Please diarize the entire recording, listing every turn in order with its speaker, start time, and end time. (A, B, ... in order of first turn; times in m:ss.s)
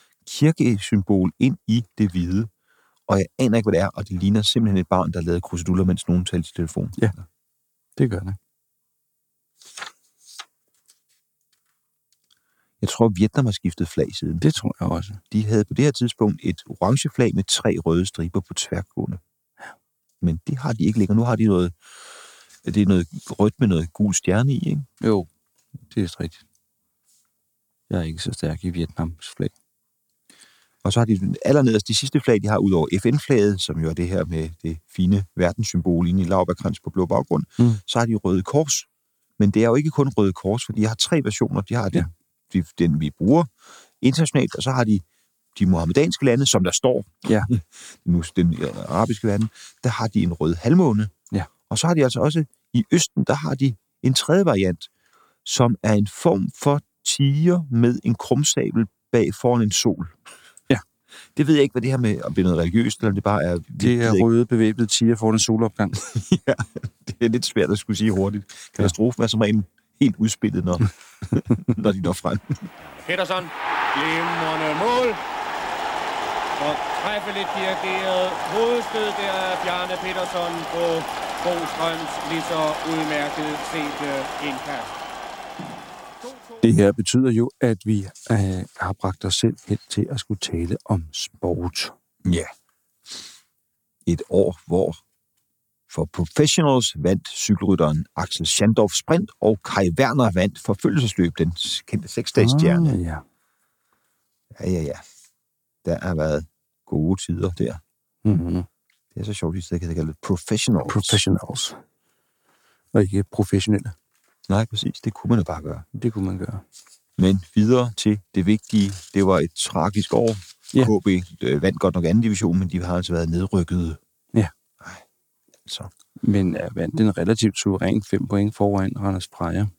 0:00.2-0:02.5 A
0:03.1-0:07.2 A
0:08.0-0:08.4 B
0:12.8-0:14.4 A
0:14.4-0:15.2 B
0:15.3-0:19.2 A
0:20.2-0:21.7 A
0:22.6-0:24.9 A
0:25.0-0:25.3 B
0:25.9-0:26.4 B
0:27.9-0:29.5 B
0:30.8-0:38.9 A
0:39.4-0:45.0 A
0:45.5-0:51.1 A
0:47.2-0:47.5 B
0:51.7-0:54.9 A
0:55.4-1:00.2 A
1:01.3-1:04.3 A
1:03.8-1:06.0 B
1:06.0-1:12.7 A
1:13.0-1:15.2 C
1:16.6-1:24.9 C
1:26.2-1:26.6 C
1:26.6-1:31.9 B
1:32.2-1:32.5 A
1:34.0-1:35.0 A
1:35.9-1:43.0 A
1:42.4-1:43.2 B
1:44.5-1:45.0 A
1:45.8-1:47.8 A
1:48.2-1:48.7 B
1:49.1-1:51.2 A
1:50.8-1:51.8 B
1:52.9-1:53.9 B
1:54.5-1:55.8 A
1:55.9-1:56.6 B
1:57.2-2:04.0 A
2:04.8-2:05.0 A
2:05.6-2:05.9 A
2:06.2-2:09.7 B